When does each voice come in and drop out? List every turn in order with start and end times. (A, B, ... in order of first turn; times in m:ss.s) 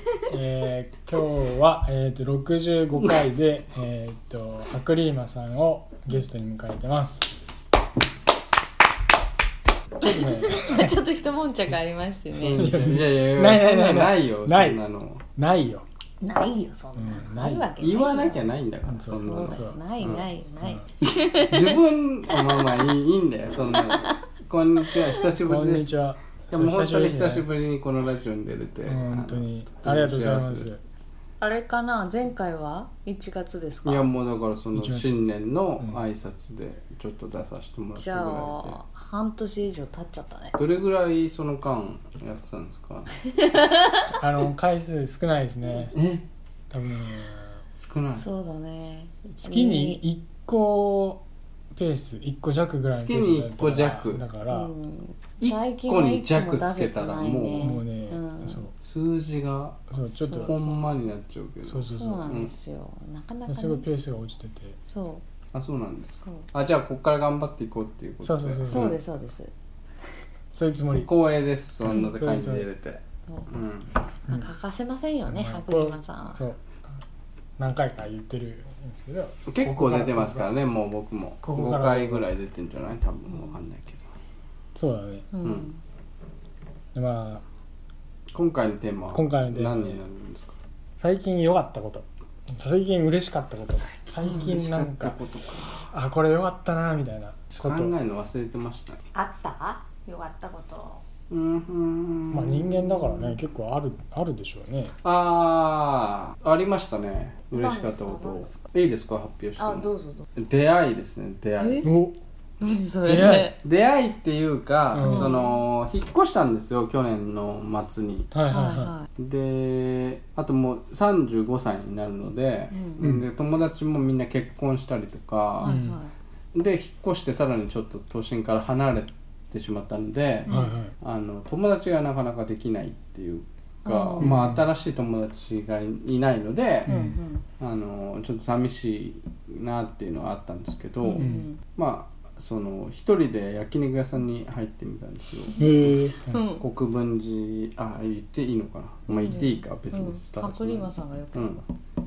0:00.3-0:07.3 A
0:10.0-0:10.9 A
0:10.0-0:12.7 B
0:12.4-0:15.2 C
0:12.6-0:14.8 A
0:15.4-0:15.8 A
0:16.2-0:18.5 B
0:17.0-0:17.7 A
0:17.8-0:20.2 C
0:18.9-0:19.8 A
0:19.1-0:21.8 B
0:21.5-0:30.8 C
0:23.7-0:24.2 B
0:25.3-0:27.5 A
0:28.8-0:30.8 A
0:31.4-0:34.1 B
0:33.8-0:38.8 C
0:34.8-0:35.2 A
0:35.8-0:36.0 A
0:38.0-0:40.6 B
0:40.6-0:43.1 C
0:43.4-0:44.0 B
0:44.0-0:46.0 A
0:45.9-0:46.3 C
0:46.7-0:47.6 A
0:47.8-0:48.3 C
0:48.1-0:50.0 B
0:49.3-0:51.2 A
0:51.7-0:54.7 A
0:52.9-0:54.2 C
0:54.5-0:58.7 B
0:55.4-0:57.8 C
0:57.6-0:58.7 A
0:58.8-0:59.9 C
0:59.9-1:00.6 A
1:00.1-1:01.0 B
1:00.4-1:02.5 C
1:01.6-1:02.3 A
1:01.9-1:03.9 B
1:03.5-1:04.8 A
1:04.8-1:05.2 B
1:05.5-1:09.0 C
1:08.2-1:09.0 A
1:08.7-1:09.5 B
1:10.5-1:11.1 A
1:11.0-1:13.9 C
1:11.8-1:12.7 A
1:13.3-1:13.5 B
1:14.1-1:16.4 B
1:15.3-1:16.9 A
1:17.6-1:20.5 A
1:19.5-1:24.0 C
1:21.4-1:22.3 A
1:23.3-1:23.6 B
1:24.8-1:25.3 A
1:25.3-1:25.8 B
1:25.4-1:25.7 C
1:26.9-1:27.4 A
1:28.3-1:30.6 C
1:29.1-1:30.0 A
1:31.0-1:35.2 A
1:33.7-1:34.5 B
1:34.2-1:35.9 C
1:35.9-1:37.9 A
1:37.6-1:39.0 C
1:39.1-1:41.0 B
1:41.3-1:43.2 C
1:42.3-1:45.0 A
1:45.0-1:51.9 C
1:47.5-1:48.6 B
1:49.6-1:50.3 B
1:51.6-1:51.9 B
1:51.8-1:52.2 A
1:52.6-1:53.6 B
1:53.0-1:53.5 A
1:53.1-1:58.3 C
1:54.9-1:55.3 A
1:55.0-1:55.6 B
1:58.3-1:58.9 A
1:58.5-1:59.1 B
1:59.2-2:05.8 C
2:02.7-2:03.0 B
2:05.6-2:06.1 B
2:05.6-2:06.0 A
2:06.5-2:16.9 C
2:10.5-2:10.8 B
2:10.5-2:10.9 A
2:13.8-2:14.4 B
2:14.2-2:14.7 A
2:16.9-2:17.2 A
2:16.9-2:17.4 B
2:17.6-2:25.9 C
2:21.0-2:21.6 B
2:21.2-2:21.5 A
2:25.6-2:26.6 B
2:25.6-2:26.4 A
2:26.6-2:31.6 C
2:29.1-2:31.7 B